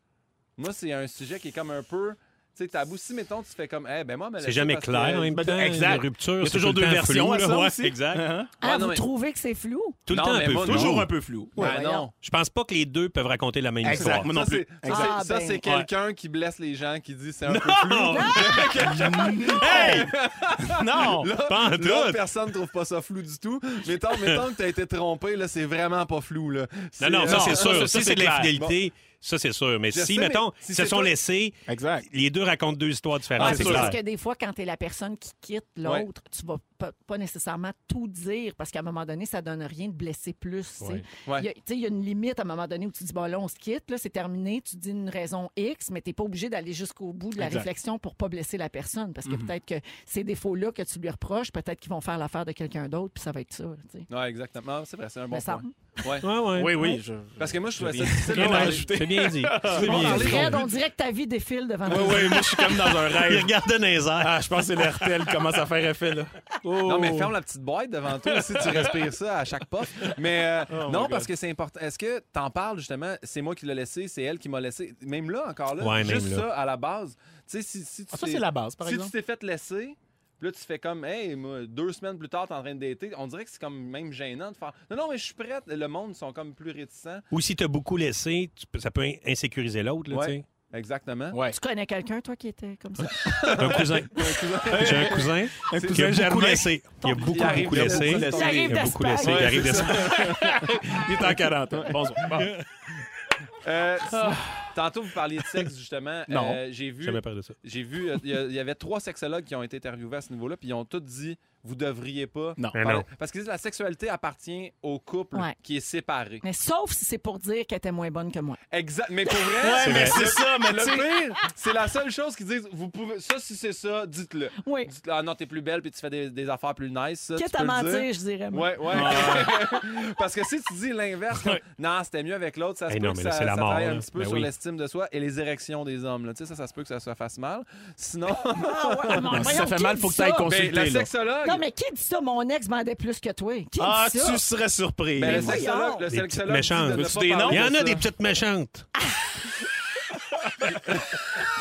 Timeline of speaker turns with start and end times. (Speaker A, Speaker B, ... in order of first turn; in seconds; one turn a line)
Speaker A: 0.6-5.4
Speaker B: 4.4-8.2
Speaker C: 5.3-8.5
Speaker A: 8.6-9.0
Speaker D: 8.6-10.0
Speaker B: 10.1-11.1
Speaker A: 10.1-12.1
Speaker C: 10.6-11.7
Speaker D: 11.6-12.1
Speaker B: 12.1-14.3
Speaker C: 13.8-15.1
Speaker A: 13.9-28.8
Speaker D: 14.9-15.6
Speaker B: 17.5-20.1
Speaker D: 18.1-18.6
Speaker C: 18.8-20.1
Speaker C: 20.7-21.3
Speaker B: 21.4-22.2
Speaker B: 27.0-31.6
Speaker C: 27.2-28.5
Speaker A: 29.9-31.1
Speaker C: 31.7-32.1
Speaker B: 32.1-34.0
Speaker D: 33.4-54.1
Speaker A: 33.4-33.9
Speaker C: 33.4-34.0
Speaker C: 47.4-47.7
Speaker C: 49.2-49.5
Speaker A: 54.1-56.3
Speaker D: 55.3-56.1
Speaker B: 56.2-57.0
Speaker C: 56.5-60.4
Speaker A: 57.4-58.9
Speaker B: 58.0-60.6
Speaker A: 59.6-60.7
Speaker D: 59.7-62.7
Speaker C: 61.9-63.6
Speaker B: 63.1-64.4
Speaker C: 64.2-67.3
Speaker A: 66.8-87.2
Speaker C: 70.7-71.3
Speaker B: 75.8-76.5
Speaker C: 78.1-79.1
Speaker B: 87.3-90.4
Speaker A: 90.1-91.4
Speaker D: 91.5-93.5
Speaker A: 93.4-96.1
Speaker B: 93.5-100.4
Speaker C: 94.7-99.0
Speaker A: 97.0-98.7
Speaker D: 98.2-99.9
Speaker A: 99.2-100.8
Speaker C: 100.2-102.5
Speaker A: 103.6-116.4
Speaker C: 106.3-106.6
Speaker B: 107.0-107.5
Speaker B: 112.7-113.0
Speaker D: 116.4-118.6
Speaker A: 118.7-139.5
Speaker C: 119.6-121.2
Speaker B: 119.8-120.2
Speaker D: 124.6-124.9
Speaker D: 127.3-129.4
Speaker C: 128.9-129.6
Speaker B: 132.9-134.5
Speaker D: 138.5-140.5
Speaker C: 139.3-141.1
Speaker A: 140.4-141.6
Speaker D: 141.4-144.4
Speaker C: 143.8-145.6
Speaker A: 145.2-148.0
Speaker D: 145.2-146.0
Speaker B: 146.1-148.9
Speaker C: 147.0-147.7